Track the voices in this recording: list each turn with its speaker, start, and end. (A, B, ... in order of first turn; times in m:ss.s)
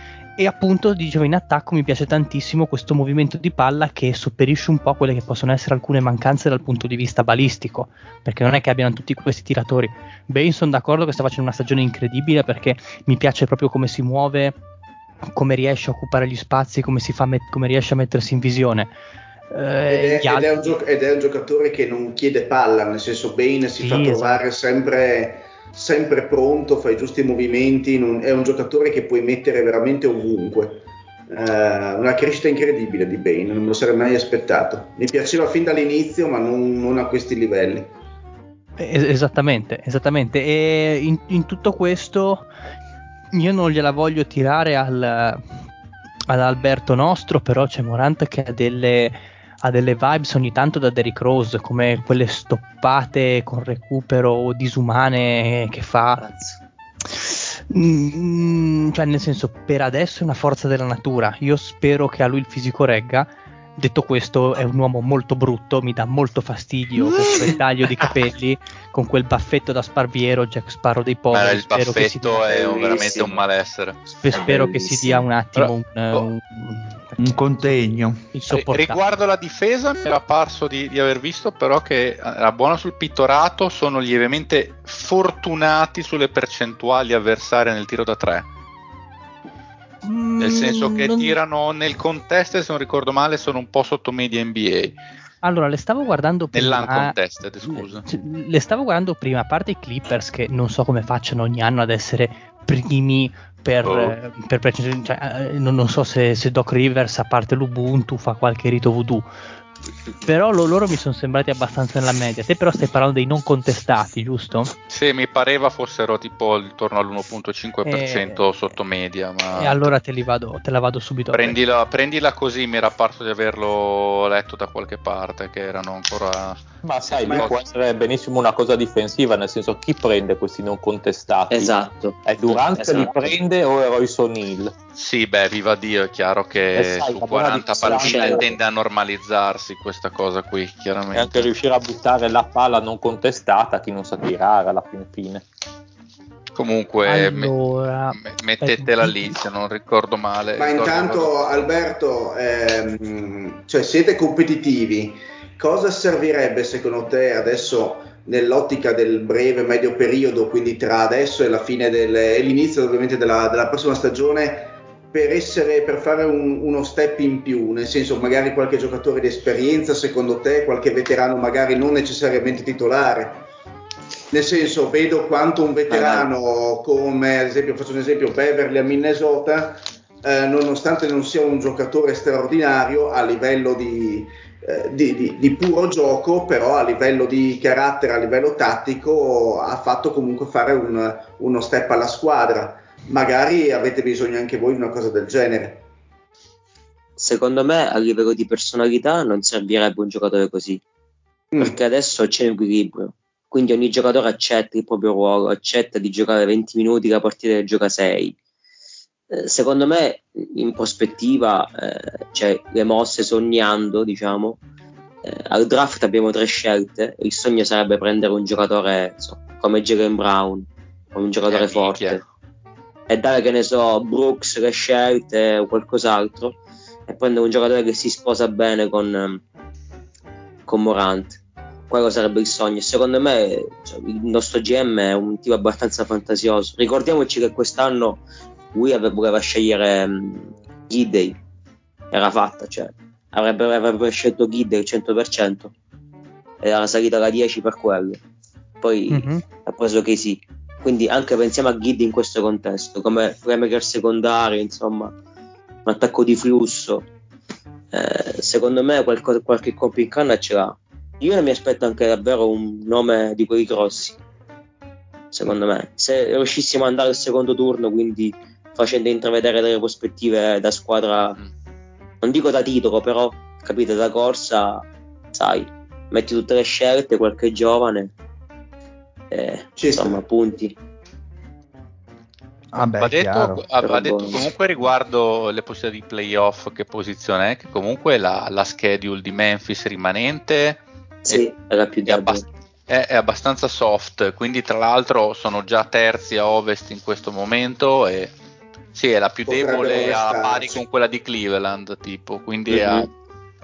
0:00.4-0:14.5 A
0:15.3-0:18.9 A
0:19.5-0:20.7 A
0:19.9-0:37.9 B
0:23.8-0:24.4 A
0:38.8-0:42.5 A
0:43.3-0:45.4 A
0:46.3-0:56.2 A
0:56.2-0:56.6 C
0:57.1-1:13.2 A
1:11.3-1:14.0 D
1:12.5-1:13.4 C
1:14.1-1:17.7 A
1:14.3-1:15.2 C
1:15.6-1:16.3 D
1:17.2-1:18.2 E
1:18.3-1:19.0 A
1:18.5-1:28.4 D
1:30.0-1:31.4 A
1:30.4-1:35.0 D
1:35.4-1:49.2 A
1:36.5-1:38.0 D
1:43.8-1:44.2 D
1:50.2-1:54.7 A
1:54.9-1:59.9 D
1:57.8-1:58.4 A
1:59.6-2:01.6 A
2:01.3-2:07.6 D
2:06.8-2:14.7 F
2:11.5-2:13.4 C
2:14.9-2:21.5 D
2:16.7-2:18.6 F
2:17.8-2:18.5 C
2:21.1-2:25.4 F
2:26.5-2:27.5 D
2:27.1-2:29.3 A
2:28.2-2:31.3 D
2:30.6-2:53.4 B
2:54.3-3:15.8 B
2:55.9-2:56.2 C
3:17.2-3:20.8 C
3:21.6-3:28.3 C
3:29.3-3:34.6 C
3:35.2-3:42.2 C
3:41.5-3:42.2 D
3:43.1-3:46.6 C
3:47.1-3:49.4 C
3:50.7-3:51.4 C
3:51.9-3:58.2 C
3:58.7-4:01.4 C
4:02.1-4:05.7 C
4:06.6-4:08.2 C
4:08.8-4:15.1 C
4:09.1-4:09.4 A
4:15.8-4:17.0 C
4:17.9-4:24.2 C
4:25.3-4:31.4 C
4:32.2-4:38.1 C
4:39.3-4:40.7 C
4:39.8-4:40.2 B
4:42.7-4:43.6 E
4:43.0-4:51.4 D
4:43.8-4:44.4 C
4:51.2-4:52.4 C
4:52.0-4:58.3 D
4:58.9-5:03.1 D
4:59.5-5:00.8 B
5:02.7-5:03.1 C